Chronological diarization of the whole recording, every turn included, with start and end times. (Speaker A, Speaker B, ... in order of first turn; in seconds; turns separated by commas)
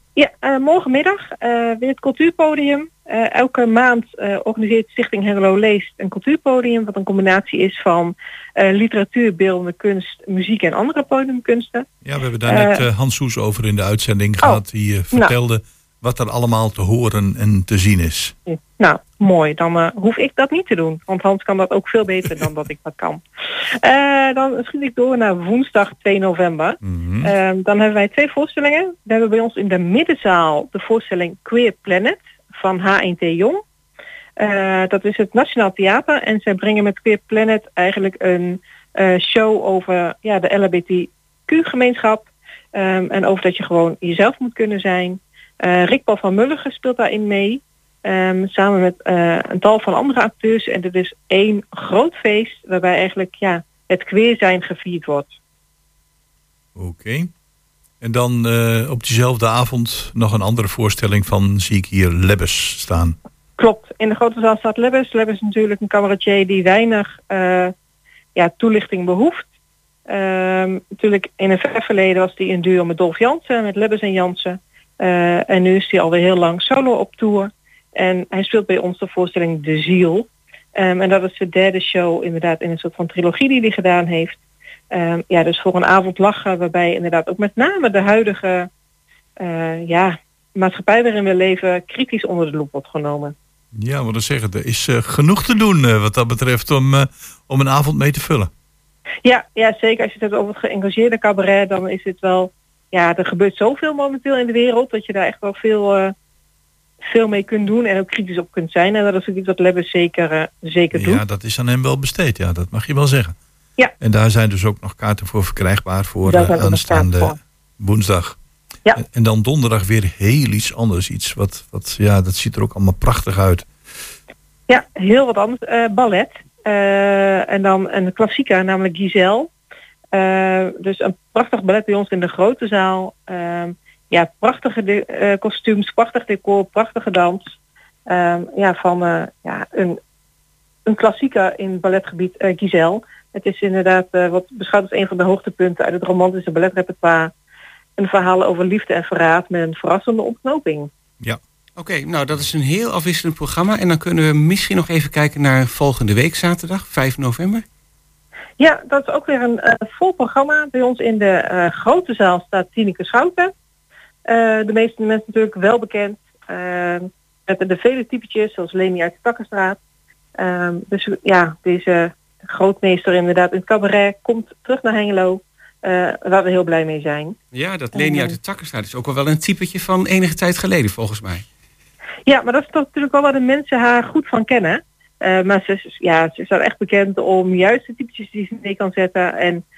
Speaker A: 0.1-11.9, Speaker B: 12.0-18.3, Speaker A: 12.5-12.8, Speaker A: 18.5-23.2, Speaker A: 23.8-33.6, Speaker B: 26.8-27.3, Speaker A: 34.4-55.3, Speaker B: 56.7-57.3, Speaker B: 58.0-63.1, Speaker A: 63.6-67.7, Speaker A: 68.3-69.5, Speaker A: 70.1-84.4, Speaker A: 84.9-88.7, Speaker A: 89.4-93.3, Speaker B: 93.7-98.5, Speaker A: 99.2-106.1, Speaker A: 107.1-111.2, Speaker B: 110.9-113.4, Speaker B: 114.0-118.3, Speaker A: 116.2-117.3, Speaker B: 119.0-123.7, Speaker A: 124.7-129.5, Speaker A: 130.1-137.5, Speaker A: 138.1-140.0, Speaker A: 140.9-147.3, Speaker A: 148.0-150.9, Speaker C: 151.8-157.6, Speaker A: 158.6-163.5, Speaker A: 164.3-169.8, Speaker A: 170.4-177.3, Speaker C: 177.5-181.4, Speaker A: 177.9-178.3, Speaker A: 182.3-189.6